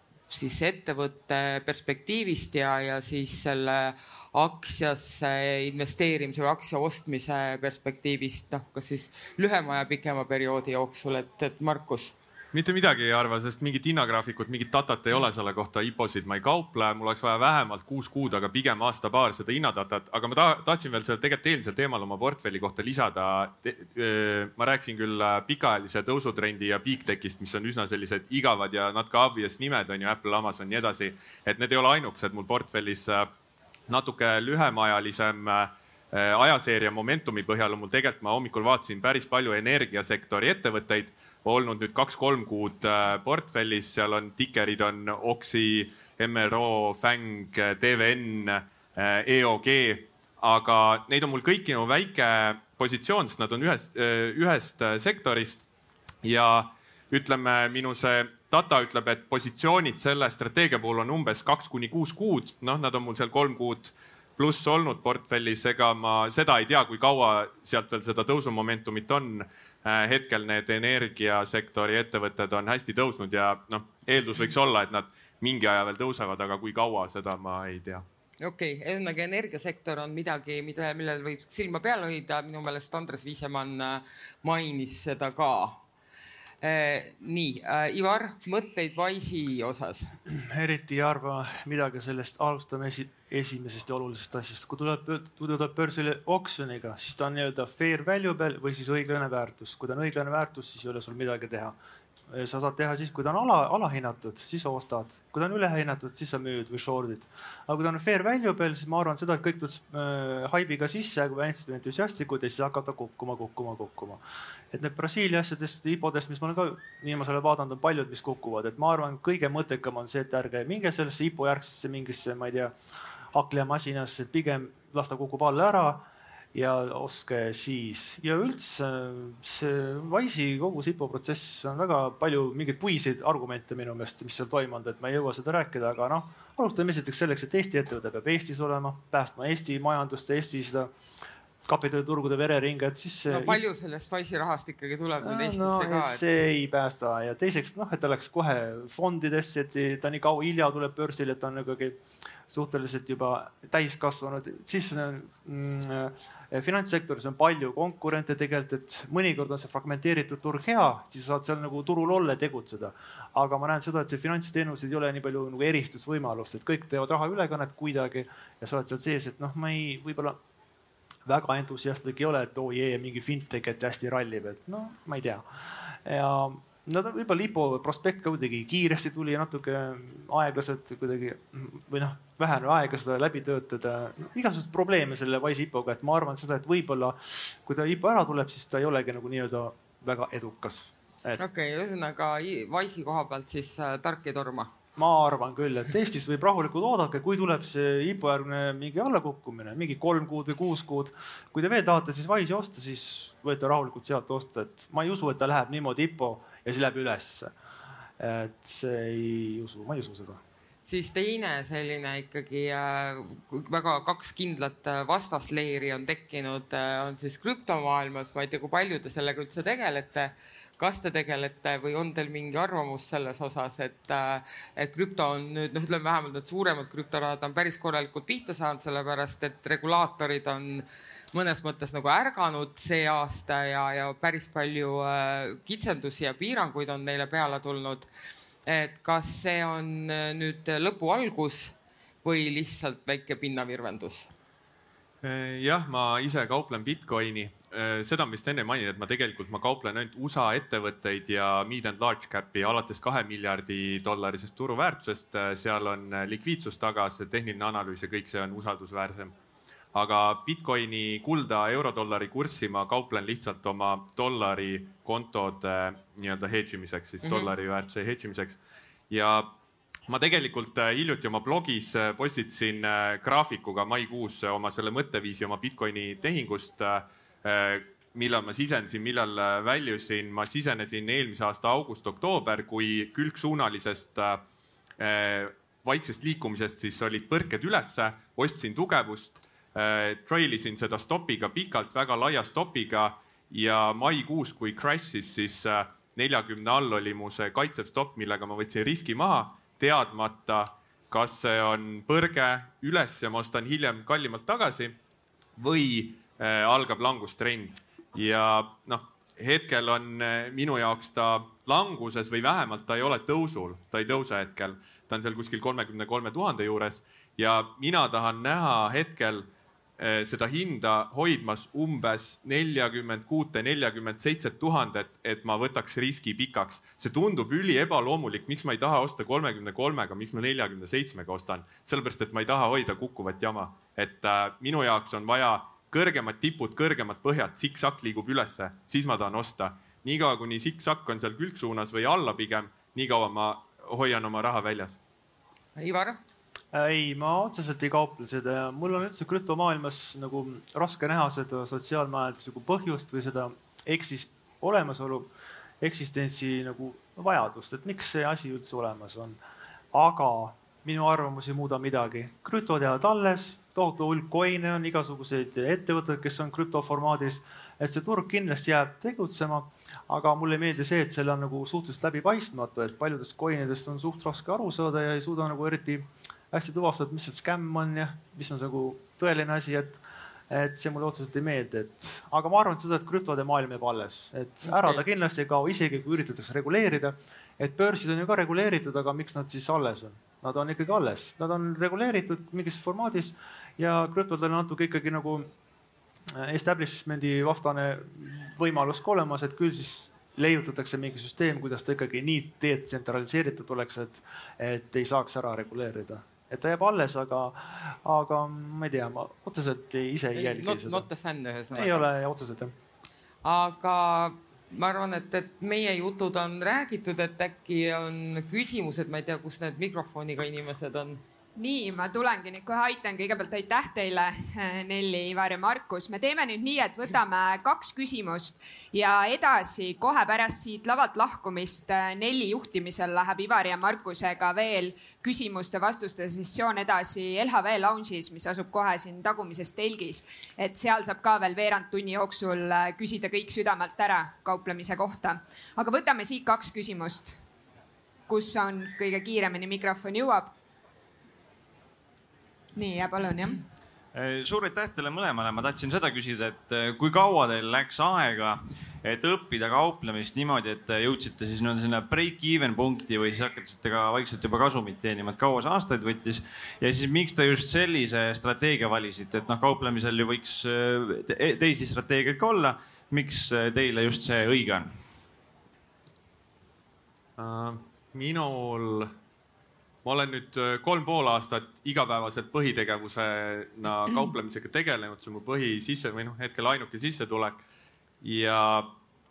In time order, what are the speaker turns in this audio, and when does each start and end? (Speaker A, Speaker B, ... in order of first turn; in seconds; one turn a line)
Speaker A: 0.3-12.1
Speaker B: 12.5-33.3
Speaker B: 33.9-55.6
Speaker B: 56.2-78.0
Speaker A: 78.4-85.8
Speaker A: 86.6-90.2
Speaker C: 90.3-101.8
Speaker C: 102.3-114.2
Speaker C: 114.7-122.7
Speaker C: 123.3-140.9
Speaker C: 141.7-143.6
Speaker A: 143.3-146.2
Speaker C: 145.2-170.4
Speaker C: 171.2-191.4
Speaker A: 191.4-194.7
Speaker C: 194.9-207.5
Speaker C: 208.2-210.4
Speaker A: 210.9-238.1
Speaker A: 238.7-244.3
Speaker B: 245.2-259.3
Speaker B: 259.9-269.5
Speaker A: 267.2-267.5
Speaker B: 270.1-284.4
Speaker B: 285.0-304.9
Speaker B: 305.6-319.5
Speaker B: 320.0-345.0
Speaker A: 345.8-346.2
Speaker C: 346.7-355.3
Speaker C: 355.8-359.4
Speaker C: 359.9-395.5
Speaker C: 396.3-411.1
Speaker A: 410.3-412.1
Speaker C: 411.7-412.7
Speaker A: 413.4-421.2
Speaker D: 421.6-447.4
Speaker D: 448.3-450.5
Speaker D: 452.7-453.6
Speaker E: 454.1-474.9
Speaker B: 477.4-479.1
Speaker B: 480.0-487.6
Speaker B: 488.2-488.9